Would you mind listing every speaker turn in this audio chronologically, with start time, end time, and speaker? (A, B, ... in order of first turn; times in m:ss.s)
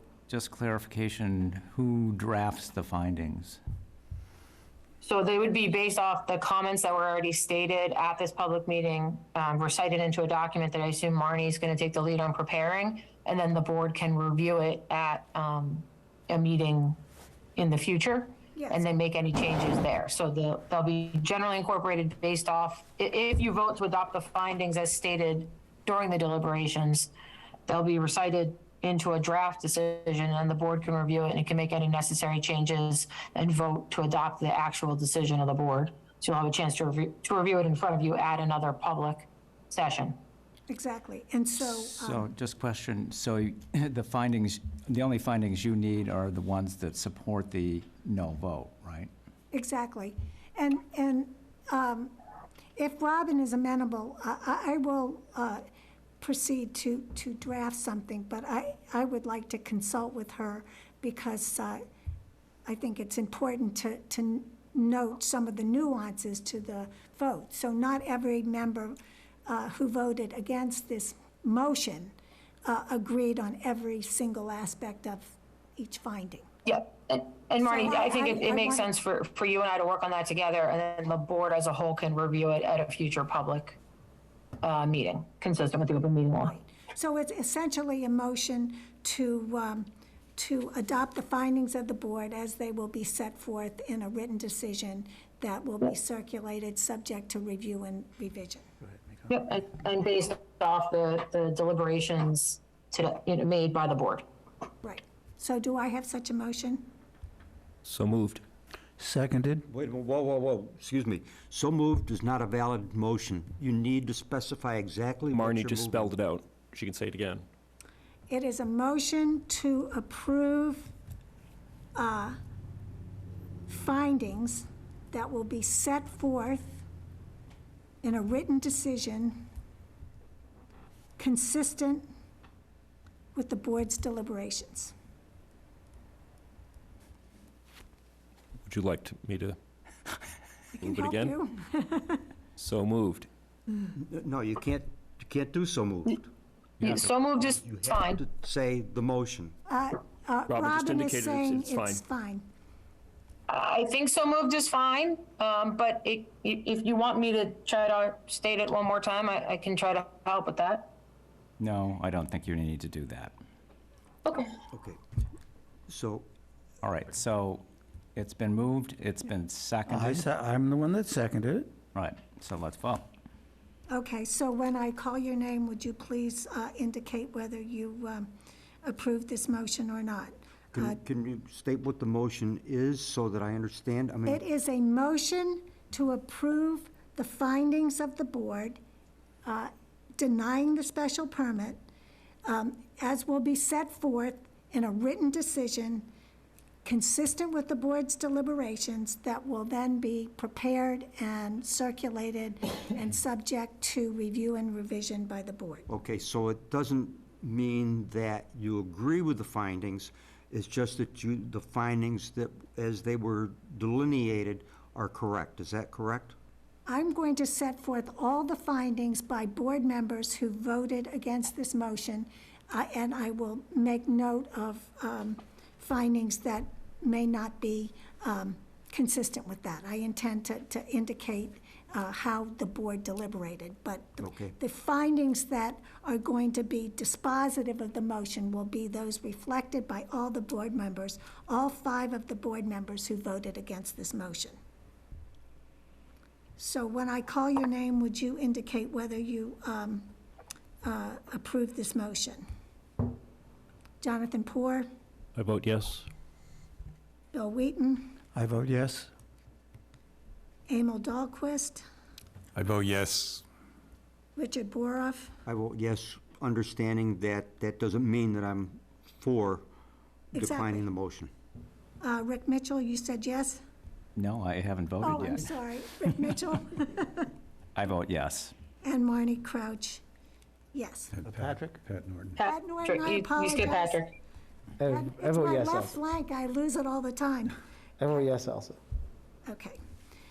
0:00.3-0:03.6 A
0:05.0-0:17.0 B
0:17.6-0:27.1 B
0:18.5-0:18.8 C
0:27.7-0:40.2 B
0:40.7-0:42.3 C
0:41.6-0:49.1 A
0:49.5-0:52.1 C
0:52.8-0:55.6 C
0:56.2-1:01.8 C
1:02.6-1:12.1 C
1:12.6-1:16.5 C
1:16.6-1:23.8 B
1:17.6-1:18.9 C
1:24.6-1:26.6 B
1:26.6-1:38.6 C
1:39.3-1:44.2 B
1:44.8-1:46.9 C
1:47.8-1:48.4 D
1:49.0-1:49.6 E
1:49.7-1:56.1 F
1:55.3-1:57.4 D
1:58.3-2:00.9 C
2:02.0-2:02.4 C
2:03.7-2:06.8 C
2:08.0-2:09.4 C
2:11.2-2:12.1 C
2:13.3-2:14.9 C
2:18.6-2:19.6 D
2:20.8-2:22.3 C
2:20.8-2:21.3 D
2:22.6-2:23.3 D
2:24.0-2:26.3 F
2:26.8-2:27.1 D
2:26.8-2:28.2 B
2:27.4-2:29.5 F
2:29.7-2:32.5 C
2:30.5-2:32.0 D
2:33.5-2:40.9 B
2:41.6-2:43.4 A
2:44.2-2:44.5 B
2:44.7-2:45.0 F
2:45.9-2:46.2 F
2:46.8-2:50.3 A
2:49.9-2:51.7 E
2:51.9-2:53.0 A
2:53.9-2:58.3 C
2:58.8-3:01.0 C
3:00.7-3:04.4 F
3:04.2-3:08.8 C
3:09.4-3:11.8 C
3:12.4-3:16.1 C
3:16.8-3:25.8 C
3:25.9-3:36.4 F
3:36.9-4:04.6 C
3:54.2-3:54.5 F
4:06.6-4:10.1 C
4:10.8-4:12.4 C
4:14.0-4:14.9 C
4:15.4-4:16.1 D
4:17.3-4:18.2 C
4:18.3-4:19.1 E
4:20.7-4:21.8 C
4:22.6-4:23.4 E
4:24.4-4:25.4 C
4:25.4-4:29.6 F
4:30.3-4:30.9 C
4:30.3-4:31.3 F
4:32.0-4:33.6 C
4:34.2-4:35.5 A
4:35.0-4:37.3 C
4:37.7-4:38.5 A
4:38.8-4:40.0 C
4:40.7-4:41.1 C
4:41.2-4:42.4 E
4:42.4-4:44.1 B
4:42.4-4:44.0 C
4:44.8-4:45.9 G
4:44.8-4:47.5 C
4:48.0-4:48.8 G
4:49.4-4:49.8 C